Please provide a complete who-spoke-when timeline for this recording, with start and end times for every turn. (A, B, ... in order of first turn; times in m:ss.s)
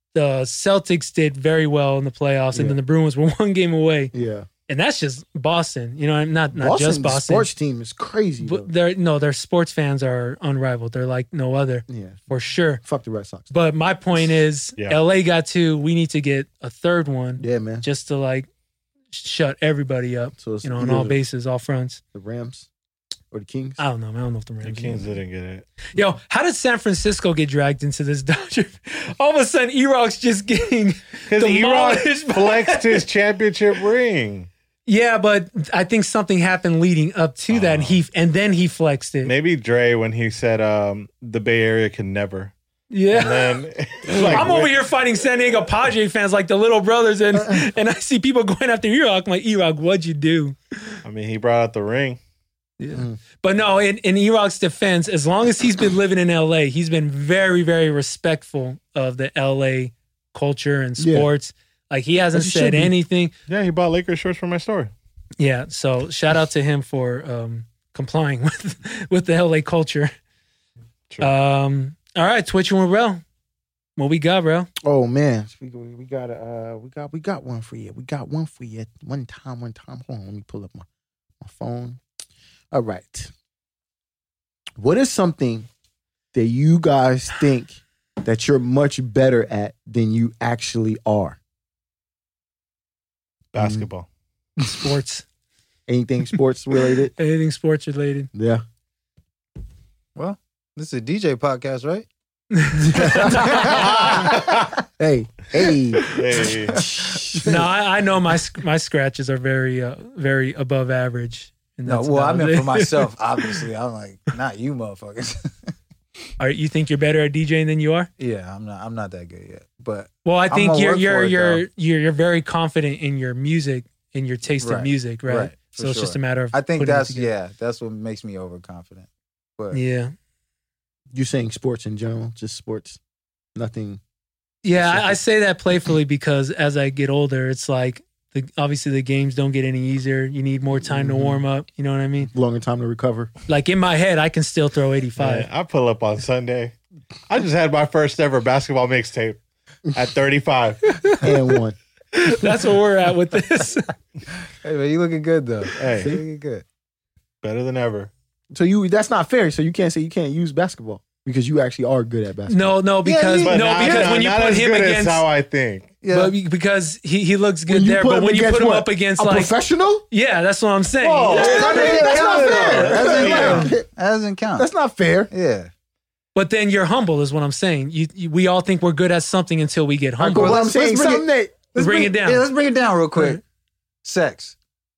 0:00.1-0:04.1 A
0:04.1-0:04.5 B
0:04.7-0:07.5 A
0:06.6-0:08.7 B
0:08.4-0:12.8 A
0:11.9-0:12.3 B
0:12.8-0:13.5 B
0:13.5-0:18.5 A
0:17.4-0:17.8 B
0:19.1-0:22.0 A
0:20.4-0:21.2 B
0:22.1-0:22.7 B
0:23.3-0:23.8 B
0:23.8-0:25.2 A
0:24.6-0:25.7 C
0:25.9-0:33.0 A
0:31.3-0:34.5 C
0:34.9-0:39.3 A
0:37.5-0:38.0 C
0:39.2-0:42.5 C
0:42.9-0:43.6 A
0:43.1-0:44.8 C
0:44.1-0:51.0 A
0:51.0-0:52.2 C
0:52.8-1:03.3 A
0:52.9-0:53.2 B
1:01.0-1:01.3 B
1:02.3-1:02.9 B
1:03.5-1:04.9 C
1:05.4-1:10.1 A
1:11.2-1:13.2 A
1:14.0-1:14.7 A
1:14.8-1:20.9 B
1:21.4-1:22.0 B
1:22.7-1:23.3 B
1:24.8-1:25.7 B
1:26.3-1:31.4 B
1:33.5-1:34.1 C
1:33.6-1:33.9 B
1:34.6-1:35.2 A
1:35.9-1:37.1 B
1:37.2-1:38.3 A
1:38.4-1:38.6 B
1:40.2-1:42.1 D
1:42.6-1:44.1 A
1:42.8-1:46.1 B
1:43.3-1:43.9 D
1:43.7-1:44.7 C
1:46.1-1:46.8 C
1:46.7-1:47.7 B
1:47.4-1:53.6 A
1:51.9-1:55.7 D
1:56.4-1:58.1 A
1:58.2-2:01.6 D
2:00.2-2:07.3 A
2:04.6-2:09.8 D
2:09.7-2:10.1 A
2:11.1-2:13.0 B
2:13.6-2:14.0 B
2:14.6-2:22.3 A
2:14.7-2:15.2 B
2:20.8-2:21.4 B
2:22.3-2:23.3 B
2:23.5-2:25.5 A
2:25.2-2:26.8 C
2:27.3-2:31.0 C
2:31.2-2:31.8 B
2:32.1-2:33.9 A
2:34.6-2:36.6 D
2:35.8-2:36.2 C
2:37.4-2:38.1 C
2:38.5-2:42.8 B
2:42.5-2:45.2 A
2:43.0-2:44.2 D
2:43.4-2:46.0 C
2:46.0-2:46.4 D
2:46.1-2:49.5 A
2:47.7-2:50.0 B
2:50.1-2:52.0 A
2:51.0-2:54.7 D
2:51.2-2:53.7 C
2:51.3-2:53.9 B
2:53.2-2:53.7 A
2:54.6-2:55.3 B
2:55.3-2:55.7 D
2:56.4-3:00.6 A
3:00.2-3:03.4 D
3:00.2-3:01.6 B
3:01.7-3:02.4 A
3:04.0-3:04.6 D